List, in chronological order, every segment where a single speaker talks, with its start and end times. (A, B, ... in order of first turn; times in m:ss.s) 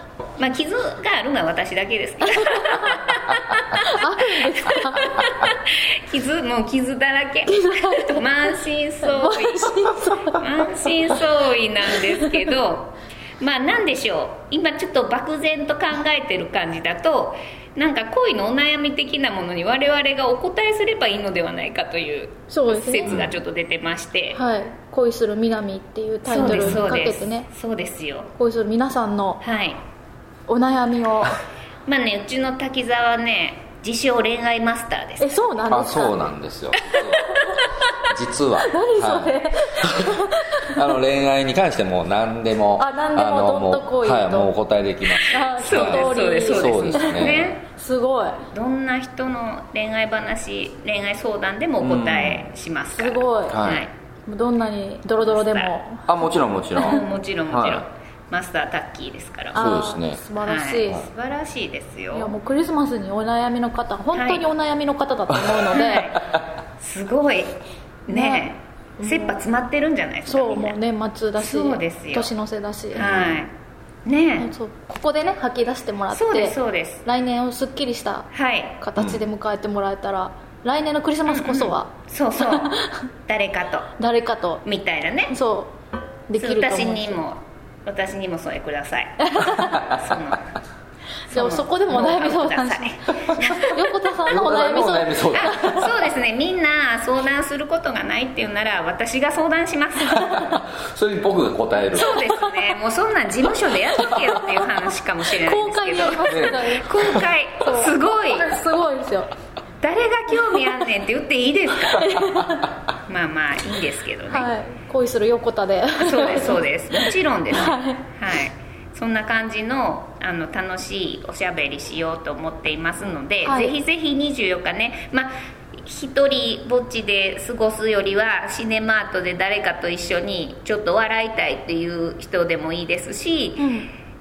0:00.4-0:24.4 A
0:03.8-0:05.2 B
0:07.5-0:08.2 B
0:09.1-0:10.5 B
0:22.5-0:23.1 B
0:23.1-0:23.3 C
0:24.3-0:27.5 B
0:26.2-0:28.3 A
0:26.4-0:26.8 C
0:28.4-0:29.4 B
0:29.4-0:29.8 A
0:30.5-0:31.4 B
0:31.8-0:35.6 A
0:35.2-0:36.2 B
0:35.7-0:37.3 C
0:37.3-0:37.6 A
0:38.1-0:47.5 C
0:38.6-0:40.8 B
0:42.8-0:44.5 B
0:45.2-0:48.4 B
0:45.4-0:47.6 A
0:48.5-0:53.9 A
0:51.8-0:52.5 C
0:52.9-0:53.6 B
0:53.5-0:53.8 C
0:54.3-0:56.2 B
0:55.2-0:55.8 A
0:56.1-0:57.8 C
0:56.8-0:59.6 A
0:59.5-1:01.0 B
0:59.5-1:00.2 C
1:00.4-1:02.3 A
1:02.1-1:06.1 B
1:04.1-1:04.4 A
1:05.7-1:06.3 A
1:06.8-1:10.8 A
1:08.1-1:09.4 B
1:10.2-1:13.4 B
1:11.4-1:12.3 A
1:12.9-1:13.5 A
1:14.0-1:14.5 A
1:14.4-1:18.3 B
1:16.1-1:17.0 A
1:18.3-1:18.8 A
1:18.8-1:23.0 B
1:19.0-1:19.2 C
1:21.3-1:23.9 A
1:24.0-1:24.6 B
1:24.6-1:25.4 A
1:25.3-1:25.7 B
1:26.3-1:27.2 B
1:26.4-1:30.5 A
1:29.3-1:29.8 B
1:31.3-1:33.9 A
1:31.3-1:35.8 B
1:34.3-1:36.0 C
1:35.3-1:40.4 A
1:40.1-1:42.2 C
1:41.9-1:48.5 A
1:45.4-1:47.0 B
1:46.2-1:47.2 C
1:47.6-1:49.3 B
1:49.8-1:54.5 A
1:52.0-1:52.5 B
1:54.3-1:58.0 B
1:56.0-2:13.7 A
2:03.4-2:03.8 B
2:13.6-2:13.9 B